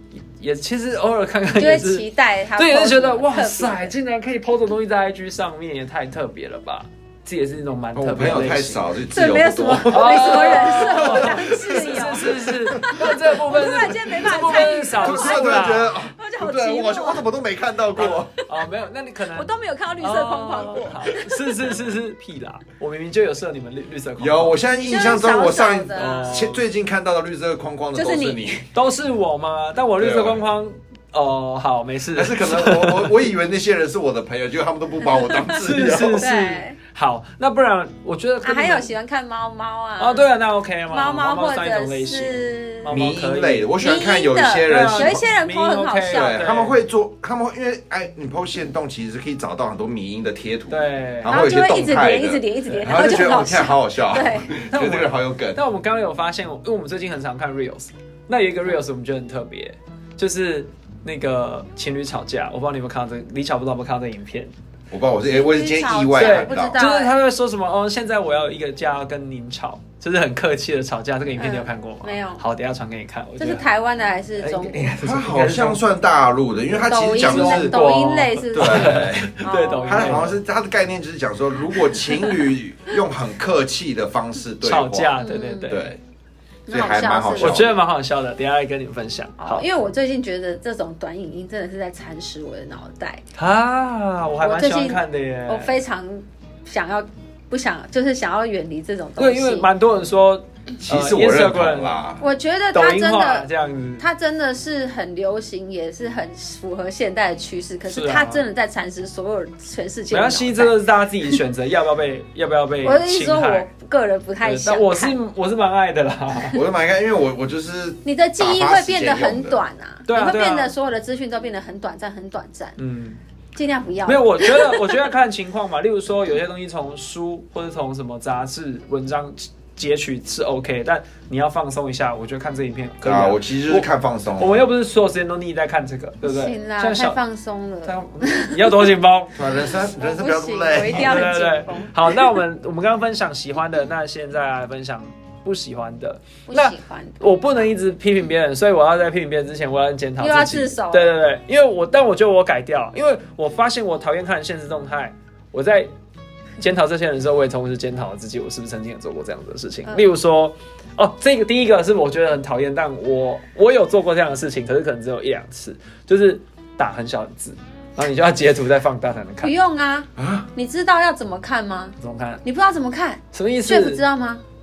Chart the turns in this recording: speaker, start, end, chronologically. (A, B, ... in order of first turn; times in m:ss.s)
0:00.4-0:08.8 A
0:01.6-0:03.9 B
0:07.9-0:13.2 C
0:09.1-0:17.3 B
0:09.9-0:15.9 A
0:14.3-0:18.3 C
0:18.0-0:19.5 A
0:19.4-0:21.6 B
0:20.0-0:24.6 A
0:24.2-0:28.7 C
0:24.9-0:26.4 B
0:26.0-0:26.6 A
0:28.0-0:28.6 B
0:28.7-0:33.2 A
0:30.0-0:30.4 C
0:32.1-0:36.3 C
0:35.2-0:35.6 B
0:35.6-0:38.9 A
0:36.2-0:36.8 B
0:38.4-0:40.3 B
0:40.0-0:43.7 A
0:40.9-0:43.0 B
0:42.9-0:45.2 C
0:43.8-0:46.4 B
0:44.7-0:46.8 A
0:46.1-0:55.6 C
0:50.7-0:51.4 A
0:51.3-0:54.5 B
0:52.7-0:53.2 A
0:54.6-1:04.5 A
1:04.9-1:06.8 C
1:05.3-1:07.1 B
1:06.2-1:13.7 A
1:11.4-1:12.4 B
1:13.4-1:14.9 B
1:14.4-1:15.8 A
1:15.0-1:17.8 C
1:16.7-1:20.3 B
1:17.2-1:20.4 A
1:18.5-1:25.2 C
1:24.6-1:25.9 A
1:25.2-1:25.8 B
1:25.7-1:26.0 C
1:26.7-1:27.6 B
1:26.7-1:27.7 C
1:27.4-1:29.7 A
1:29.4-1:33.2 B
1:33.4-1:35.8 A
1:34.4-1:39.7 B
1:39.2-1:42.0 A
1:40.8-1:42.2 C
1:42.2-1:50.8 B
1:42.7-1:44.0 A
1:47.9-1:48.4 A
1:50.1-1:53.7 A
1:52.8-1:55.2 B
1:54.4-1:56.6 A
1:56.5-1:59.6 C
1:58.0-2:02.8 B
2:00.1-2:00.7 A
2:02.8-2:03.2 A
2:03.6-2:05.0 B
2:04.0-2:17.2 A
2:13.0-2:14.6 C
2:16.2-2:18.9 B
2:17.8-2:19.4 A
2:19.4-2:21.3 C
2:19.8-2:22.4 B
2:20.8-2:35.9 A
2:26.5-2:27.2 B
2:30.2-2:31.2 B
2:36.6-2:49.5 A
2:49.4-2:54.4 B
2:50.2-2:50.5 C
2:52.0-2:52.4 A
2:53.3-2:54.0 A